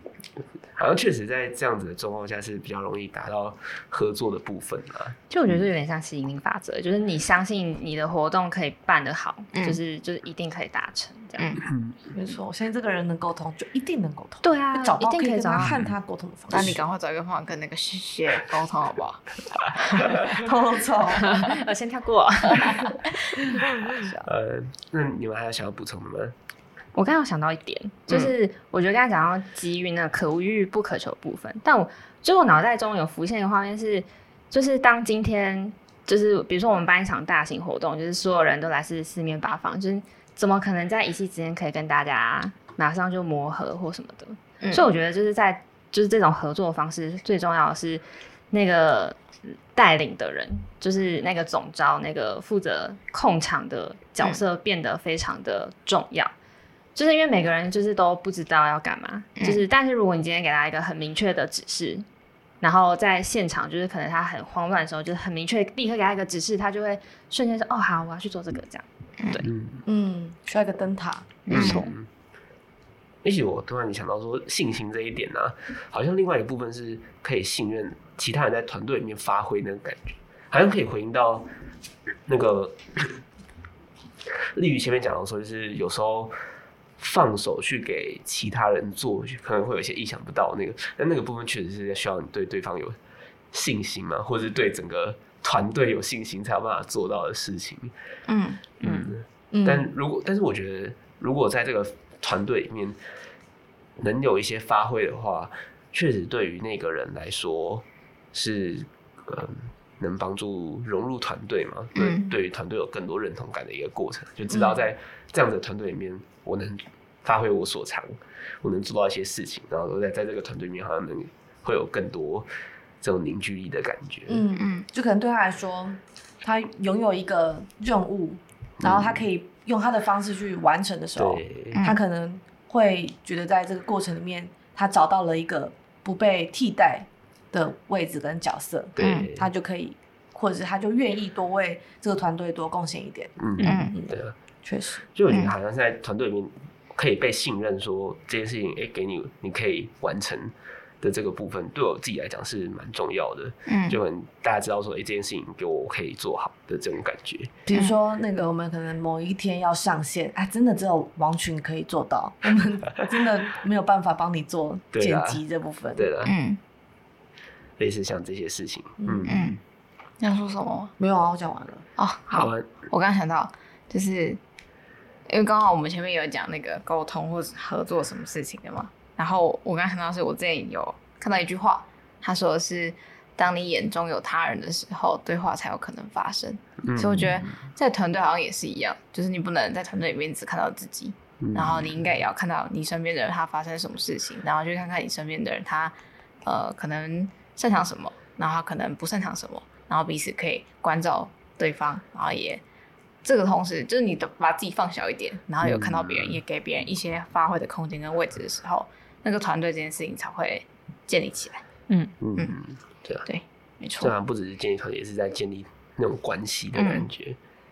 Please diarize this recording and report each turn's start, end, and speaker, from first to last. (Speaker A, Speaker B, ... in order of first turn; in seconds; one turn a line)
Speaker A: 0.8-5.6
Speaker B: 5.3-11.6
Speaker C: 9.5-9.8
Speaker A: 11.7-12.0
Speaker D: 12.1-16.8
Speaker B: 14.4-15.8
Speaker A: 15.6-15.9
Speaker C: 16.5-20.2
Speaker D: 20.2-21.6
Speaker B: 21.2-23.0
Speaker D: 23.6-24.2
Speaker A: 23.7-26.4
Speaker B: 26.9-49.2
Speaker C: 44.6-44.9
Speaker B: 49.7-56.3
Speaker B: 57.0-62.1
Speaker B: 62.6-69.5
Speaker A: 69.4-69.8
Speaker D: 69.9-71.4
Speaker B: 71.5-71.9
Speaker A: 71.5-72.1
Speaker C: 71.5-71.8
Speaker A: 73.2-81.5
Speaker A: 82.3-83.2
Speaker A: 84.5-86.3
Speaker A: 87.0-93.0
Speaker A: 93.5-97.9
Speaker C: 98.3-98.6
Speaker A: 98.8-103.0
Speaker B: 98.8-99.1
Speaker D: 99.5-99.9
Speaker A: 104.0-122.5
Speaker C: 112.0-112.3
Speaker C: 114.5-114.8
Speaker A: 123.0-124.5
Speaker D: 124.3-145.1
Speaker C: 124.6-124.9
Speaker A: 128.8-129.3
Speaker A: 131.2-131.8
Speaker C: 131.7-132.0
Speaker A: 139.0-139.5
Speaker C: 139.0-139.3
Speaker A: 143.4-144.3
Speaker B: 143.6-143.8
Speaker C: 143.6-144.0
Speaker A: 145.2-157.6
Speaker C: 153.7-154.0
Speaker D: 157.7-166.1
Speaker A: 163.0-163.3
Speaker A: 164.9-165.4
Speaker A: 165.9-166.3
Speaker C: 166.2-166.6
Speaker A: 167.8-169.6
Speaker D: 169.0-169.4
Speaker C: 169.3-169.6
Speaker C: 170.2-170.9
Speaker D: 171.0-171.9
Speaker C: 172.0-174.4
Speaker A: 172.3-172.7
Speaker C: 175.3-202.6
Speaker A: 186.8-187.5
Speaker A: 191.4-192.0
Speaker C: 203.2-211.6
Speaker A: 205.6-206.4
Speaker A: 212.2-213.3
Speaker C: 213.3-214.1
Speaker A: 214.0-217.4
Speaker C: 216.8-217.1